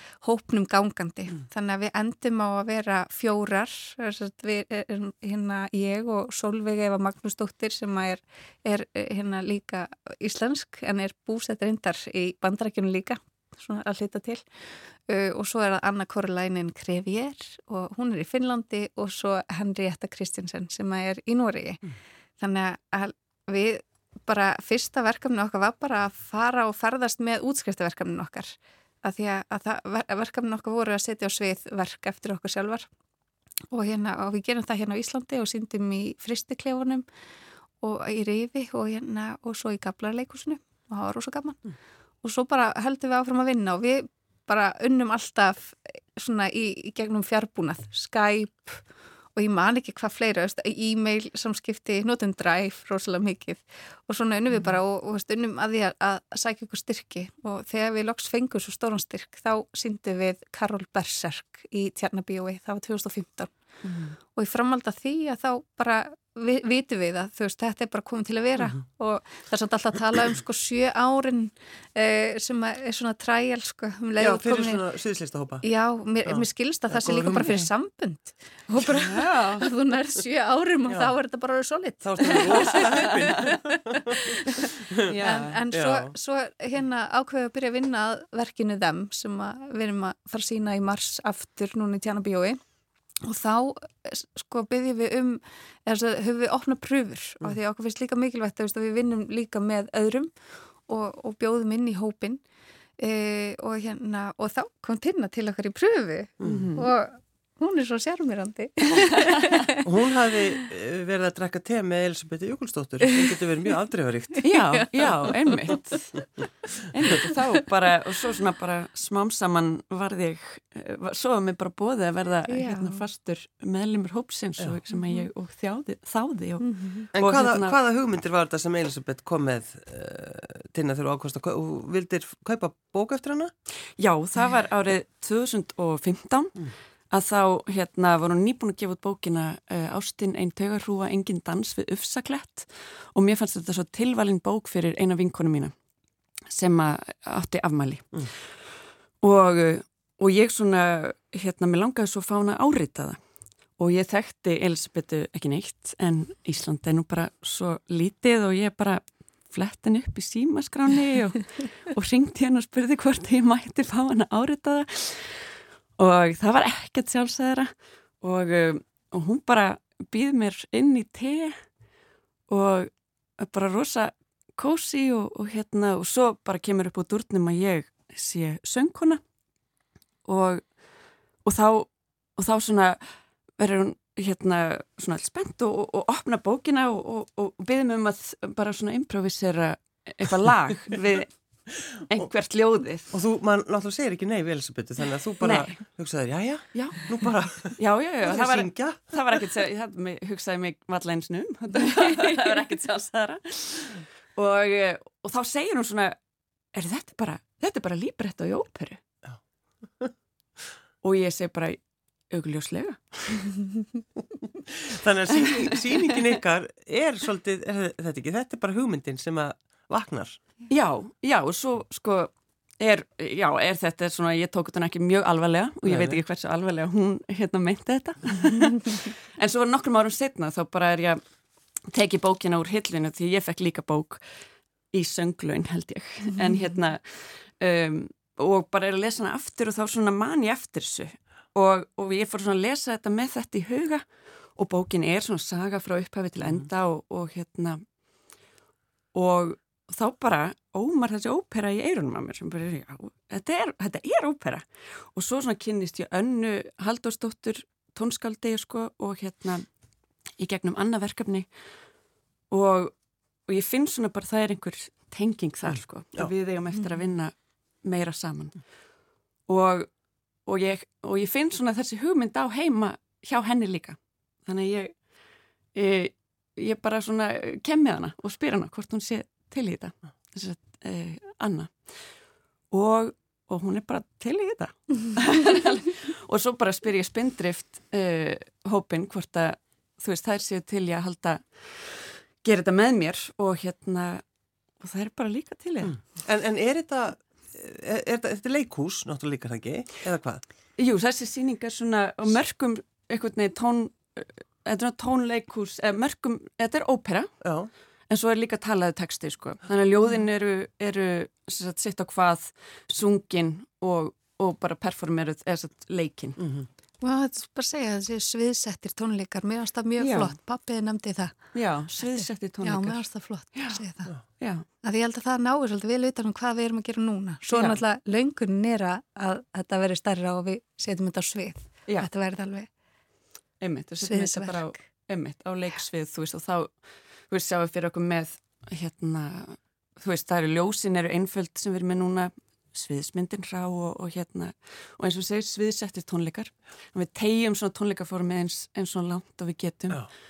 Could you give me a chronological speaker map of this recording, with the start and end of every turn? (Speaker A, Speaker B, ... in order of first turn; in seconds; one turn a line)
Speaker A: 0.2-32.9
Speaker A: 33.7-37.0
Speaker A: 37.8-41.6
Speaker A: 42.2-48.8
Speaker A: 49.3-63.5
Speaker B: 63.8-64.2
Speaker A: 64.3-74.8
Speaker C: 74.2-75.6
Speaker A: 75.6-92.6
Speaker C: 76.2-77.5
Speaker B: 78.9-79.7
Speaker C: 82.0-85.1
Speaker B: 82.7-83.0
Speaker B: 85.1-85.6
Speaker C: 85.7-86.1
Speaker A: 93.2-100.3
Speaker A: 100.9-102.4
Speaker A: 103.0-109.9
Speaker C: 106.4-106.7
Speaker B: 106.4-106.9
Speaker C: 109.8-114.5
Speaker A: 114.4-115.3
Speaker B: 114.4-116.2
Speaker B: 116.8-127.8
Speaker A: 122.5-123.0
Speaker A: 124.9-125.3
Speaker A: 126.6-127.1
Speaker C: 127.1-133.5
Speaker B: 134.0-145.7
Speaker B: 146.5-148.5
Speaker B: 149.2-153.2
Speaker B: 153.8-171.7
Speaker B: 172.5-179.2
Speaker B: 180.2-180.8
Speaker B: 181.4-193.1
Speaker C: 193.1-199.2
Speaker B: 195.4-195.8
Speaker B: 196.7-197.1
Speaker B: 197.7-206.2
Speaker B: 206.7-209.0
Speaker B: 211.0-213.5
Speaker C: 214.7-220.4
Speaker B: 215.4-215.8
Speaker B: 220.7-231.2
Speaker C: 225.8-226.2
Speaker B: 231.9-234.3
Speaker B: 234.9-247.8
Speaker B: 249.1-259.6
Speaker B: 260.4-261.5
Speaker B: 262.5-262.9
Speaker B: 263.4-268.8
Speaker B: 269.4-275.1
Speaker B: 275.7-282.1
Speaker B: 282.7-294.2
Speaker B: 294.8-296.0
Speaker C: 295.8-300.4
Speaker B: 300.8-307.3
Speaker C: 307.4-307.7
Speaker B: 308.1-316.4
Speaker C: 316.4-316.7
Speaker A: 317.0-324.1
Speaker B: 320.0-320.4
Speaker B: 321.5-323.8
Speaker B: 324.4-324.6
Speaker A: 324.8-332.7
Speaker B: 327.5-327.8
Speaker B: 333.6-350.1
Speaker A: 334.0-334.7